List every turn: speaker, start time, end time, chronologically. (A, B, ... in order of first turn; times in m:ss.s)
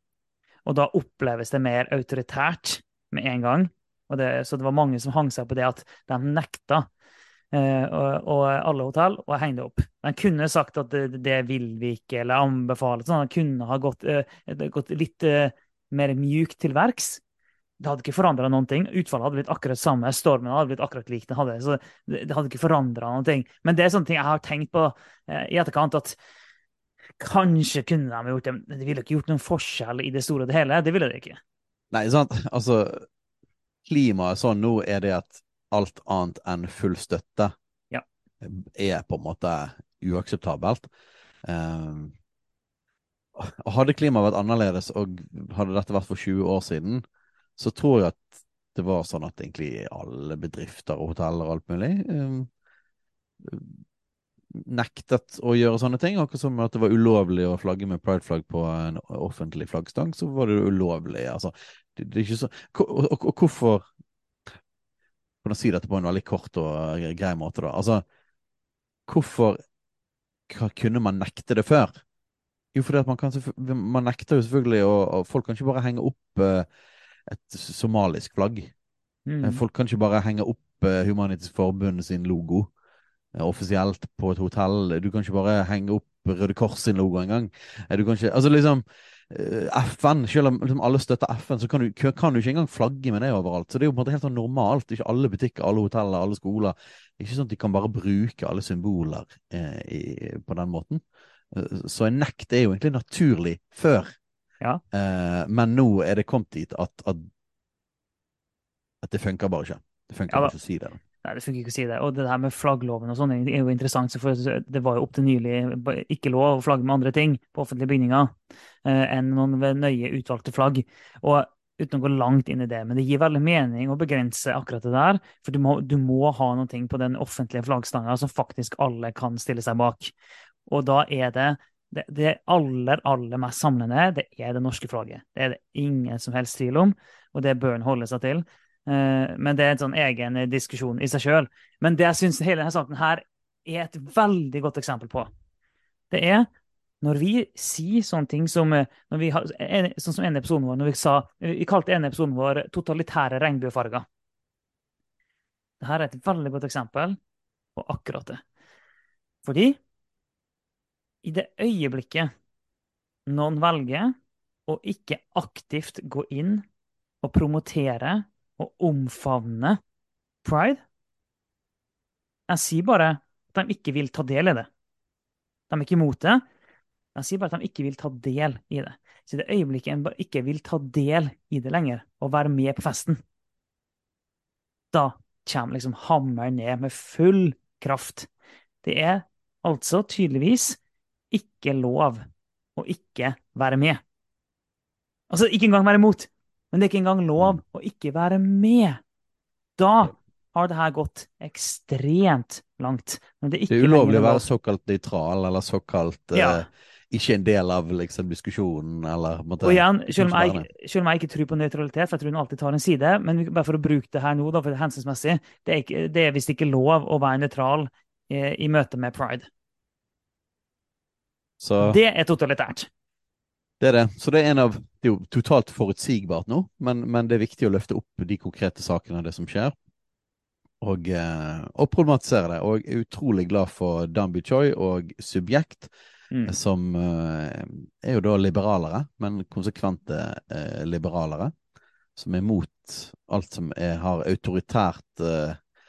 0:00.6-0:06.9 A
0:07.5-0:17.2 A
0:17.8-0:26.2 A
0:27.2-0:31.4 A
0:31.9-0:33.1 B
0:33.8-0:37.5 B
0:38.4-0:40.9 B
0:41.4-0:42.1 B
0:43.4-0:47.0 B
0:47.6-0:52.5 B
0:53.4-0:53.8 B
0:54.5-1:03.8 B
1:05.4-1:08.0 B
1:09.1-1:09.6 B
1:10.5-1:12.0 B
1:12.7-1:16.7 B
1:17.3-1:18.7 B
1:19.3-1:19.6 A
1:19.4-1:22.7 B
1:23.3-1:44.1 B
1:44.9-1:47.2 B
1:49.0-1:51.0 B
1:51.2-2:10.1 A
2:10.7-2:25.3 A
2:26.1-2:26.5 A
2:27.0-2:34.0 A
2:35.8-2:37.2 A
2:37.8-2:38.4 A
2:39.4-2:39.8 A
2:41.2-2:42.3 A
2:43.3-2:44.1 A
2:44.7-2:46.6 A
2:47.2-2:49.8 A
2:50.4-2:50.8 A
2:52.5-2:54.7 A
2:55.7-2:56.4 A
2:57.1-3:03.2 A
3:04.9-3:08.3 A
3:08.8-3:10.8 A
3:11.3-3:12.2 A
3:12.8-3:14.0 A
3:15.3-3:19.0 A
3:19.8-3:24.4 A
3:23.7-3:30.7 B
3:26.3-3:26.6 A
3:29.6-3:39.5 A
3:41.6-3:42.0 B
3:41.8-3:42.9 A
3:43.8-3:49.7 B
3:50.8-3:55.9 B
3:56.4-4:01.5 B
4:02.2-4:05.6 B